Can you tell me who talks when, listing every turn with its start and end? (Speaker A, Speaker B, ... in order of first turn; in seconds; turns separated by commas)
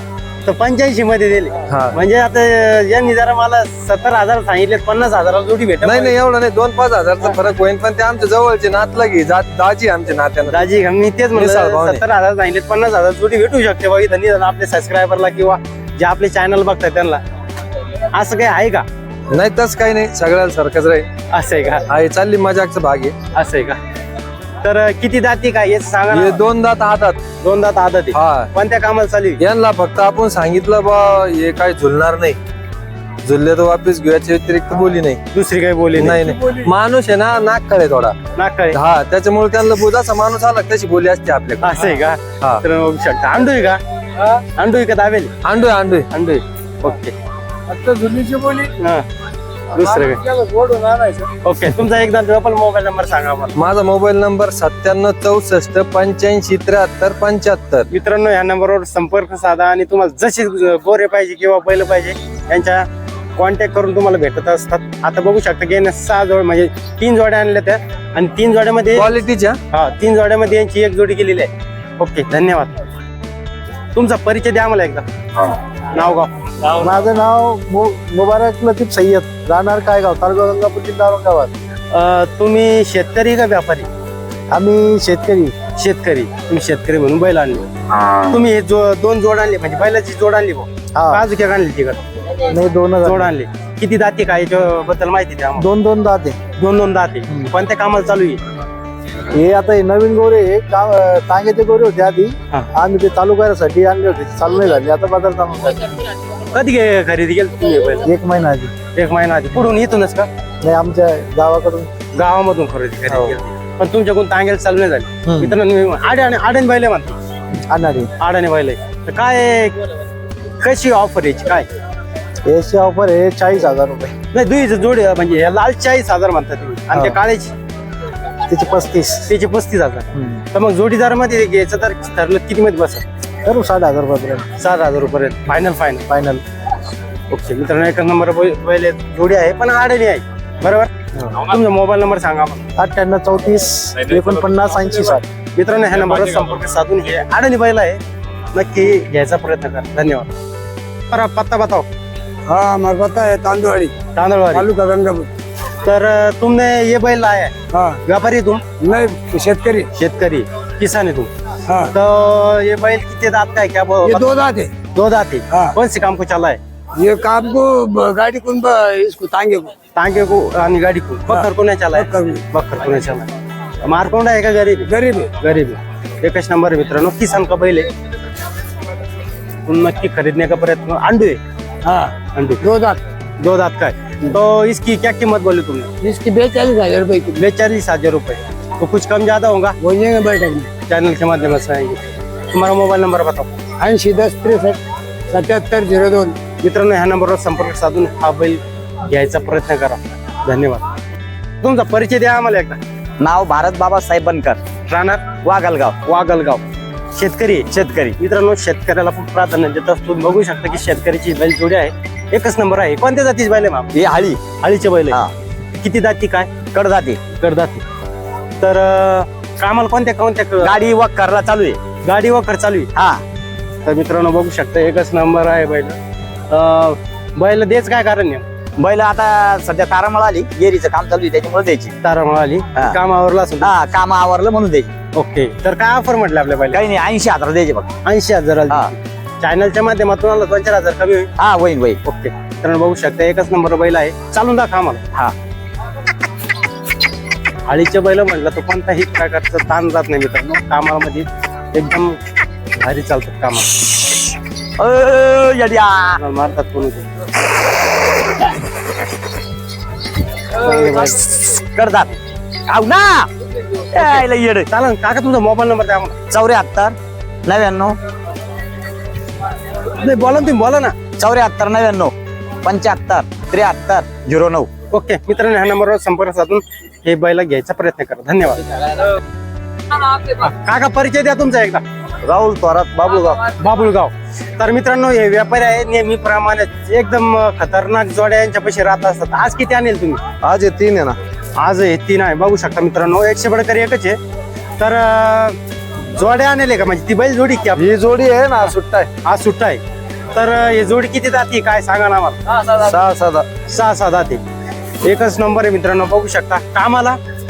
Speaker A: 0.5-6.2, Speaker B: 1.7-2.0, Speaker B: 5.8-10.7, Speaker A: 10.5-17.2, Speaker B: 11.3-12.0, Speaker A: 18.1-18.9, Speaker B: 19.3-21.1, Speaker A: 21.3-21.9, Speaker B: 21.9-23.1, Speaker A: 23.3-23.8, Speaker A: 24.6-26.4, Speaker B: 26.1-27.2, Speaker A: 27.4-29.4, Speaker B: 28.1-28.5, Speaker B: 29.4-32.4, Speaker B: 33.2-35.2, Speaker A: 35.3-36.2, Speaker B: 36.0-38.2, Speaker A: 38.4-38.8, Speaker B: 38.7-41.9, Speaker A: 41.6-43.8, Speaker A: 44.5-45.3, Speaker B: 45.4-46.1, Speaker A: 46.1-47.1, Speaker C: 47.7-48.6, Speaker A: 48.8-49.0, Speaker A: 49.7-50.2, Speaker C: 50.2-51.3, Speaker A: 51.4-53.5, Speaker B: 53.6-57.9, Speaker A: 57.9-69.2, Speaker B: 69.0-69.6, Speaker A: 69.7-72.7, Speaker A: 74.0-75.1, Speaker A: 75.9-76.3, Speaker D: 76.8-81.5, Speaker A: 81.9-83.9, Speaker D: 84.5-85.5, Speaker A: 85.8-87.7, Speaker A: 88.3-92.0, Speaker D: 91.0-91.2, Speaker D: 92.5-93.3, Speaker A: 93.0-95.7, Speaker D: 95.6-96.4, Speaker A: 96.6-98.4, Speaker D: 99.3-105.9, Speaker A: 106.5-108.1, Speaker D: 108.0-108.7, Speaker A: 109.0-110.3, Speaker D: 110.6-111.9, Speaker A: 112.2-117.2, Speaker D: 113.1-113.3, Speaker D: 117.7-118.1, Speaker A: 118.2-119.8, Speaker A: 120.6-121.7, Speaker D: 122.5-124.1, Speaker A: 124.3-127.5, Speaker D: 126.9-127.2, Speaker D: 128.5-129.3, Speaker A: 129.3-133.1, Speaker D: 130.2-130.4, Speaker D: 133.4-134.4, Speaker A: 134.6-136.1, Speaker D: 136.1-136.4, Speaker A: 137.3-142.7, Speaker D: 142.8-145.2, Speaker A: 145.6-148.0, Speaker A: 148.5-150.3, Speaker A: 151.1-151.9, Speaker C: 152.5-154.0, Speaker A: 154.1-154.7, Speaker C: 154.5-155.3, Speaker A: 155.8-157.5, Speaker C: 157.7-158.0, Speaker A: 158.1-158.6, Speaker C: 158.8-159.9, Speaker A: 160.0-161.3, Speaker A: 161.9-164.4, Speaker C: 164.0-164.7, Speaker A: 164.9-166.6, Speaker C: 167.0-169.7, Speaker A: 169.9-173.3, Speaker C: 171.9-172.3, Speaker A: 173.8-174.9, Speaker C: 174.9-175.3, Speaker A: 175.4-177.9, Speaker A: 179.7-181.4, Speaker C: 181.8-183.0, Speaker A: 182.3-182.6, Speaker A: 183.4-185.9, Speaker C: 186.0-187.4, Speaker A: 187.3-189.8, Speaker C: 189.8-190.7, Speaker A: 190.9-193.5, Speaker C: 193.8-196.4, Speaker A: 196.6-200.8, Speaker A: 201.6-202.8, Speaker E: 203.2-204.6, Speaker A: 204.9-205.4, Speaker E: 205.4-206.0, Speaker A: 206.0-206.6, Speaker A: 207.2-214.0, Speaker E: 207.7-208.2, Speaker E: 213.9-214.4, Speaker A: 214.6-215.2, Speaker A: 215.8-216.6, Speaker E: 216.7-217.2, Speaker A: 217.3-217.8, Speaker A: 218.6-220.8, Speaker E: 220.6-221.8, Speaker A: 222.0-222.9, Speaker E: 222.9-223.2, Speaker A: 223.8-226.0, Speaker A: 226.5-228.4, Speaker E: 228.8-231.9, Speaker A: 232.0-233.8, Speaker E: 233.6-234.9, Speaker A: 235.2-236.8, Speaker E: 236.7-237.9, Speaker A: 238.1-241.3, Speaker E: 241.4-242.0, Speaker A: 242.0-245.0, Speaker A: 247.7-252.2, Speaker A: 252.8-253.8, Speaker E: 254.8-256.2, Speaker A: 256.2-257.1, Speaker A: 260.6-261.2, Speaker E: 260.7-262.1, Speaker E: 262.7-263.3, Speaker E: 263.9-264.7, Speaker A: 263.9-266.2, Speaker E: 266.3-268.0, Speaker A: 269.9-271.0, Speaker E: 271.2-274.7, Speaker A: 274.9-278.6, Speaker A: 280.1-281.8, Speaker F: 282.2-283.4, Speaker A: 283.6-290.2, Speaker F: 290.4-291.2, Speaker A: 291.6-294.2, Speaker A: 294.8-295.6, Speaker A: 296.1-297.9, Speaker F: 297.8-299.1, Speaker A: 299.2-299.8, Speaker A: 300.3-302.4, Speaker F: 302.7-303.5, Speaker A: 303.7-304.4, Speaker A: 305.0-307.2